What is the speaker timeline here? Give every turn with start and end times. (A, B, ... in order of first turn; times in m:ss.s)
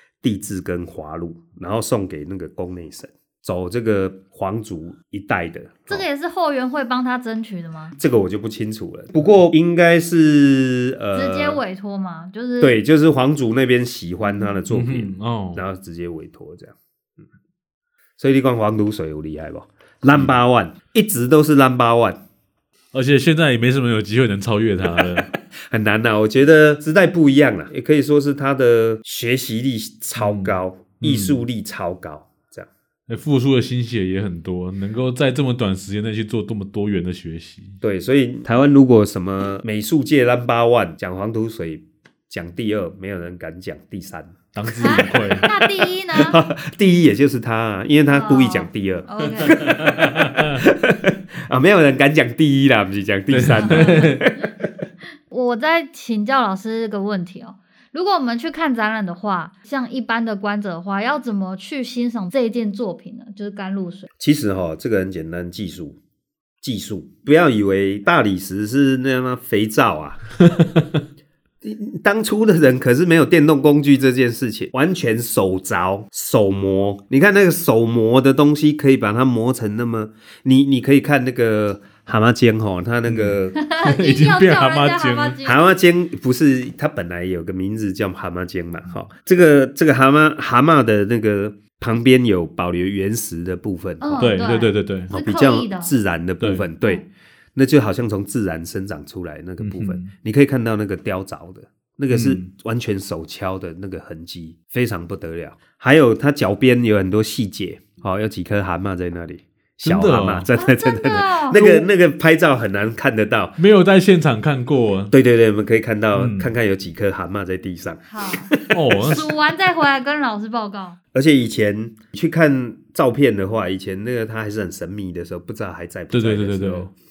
0:00.2-0:06.0 A
0:05.9-0:08.0 B
0:08.0-0:11.6 A
0:11.1-0:12.8 B
0:12.6-0:16.7 A
0:14.7-0:15.6 C
0:18.2-0:22.2 A
0:20.1-0:20.4 C
0:22.9-0:25.3 C
0:25.7-0:32.7 A
0:30.2-0:31.4 C
0:33.1-0:37.8 C
0:37.8-0:54.5 A
0:44.5-0:45.5 C
0:44.8-0:46.4 B
0:48.1-0:49.6 B
0:49.2-0:50.6 C
0:53.3-0:54.3 C
0:53.6-0:54.2 B
0:55.3-1:04.1 B
1:04.2-1:06.0 A
1:06.6-1:10.3 A
1:11.6-1:23.6 A
1:23.1-1:25.4 C
1:23.6-1:25.6 B
1:25.4-1:34.4 A
1:34.0-1:35.9 B
1:34.2-1:35.1 C
1:35.1-1:53.6 A
1:39.6-1:40.1 C
1:42.1-1:42.5 C
1:49.8-1:50.5 C
1:50.6-1:51.8 B
1:53.6-1:55.1 C
1:55.1-1:59.2 A
1:56.2-1:56.5 C
1:58.1-2:01.0 B
1:58.7-1:59.3 C
2:01.1-2:06.9 A
2:06.1-2:06.9 C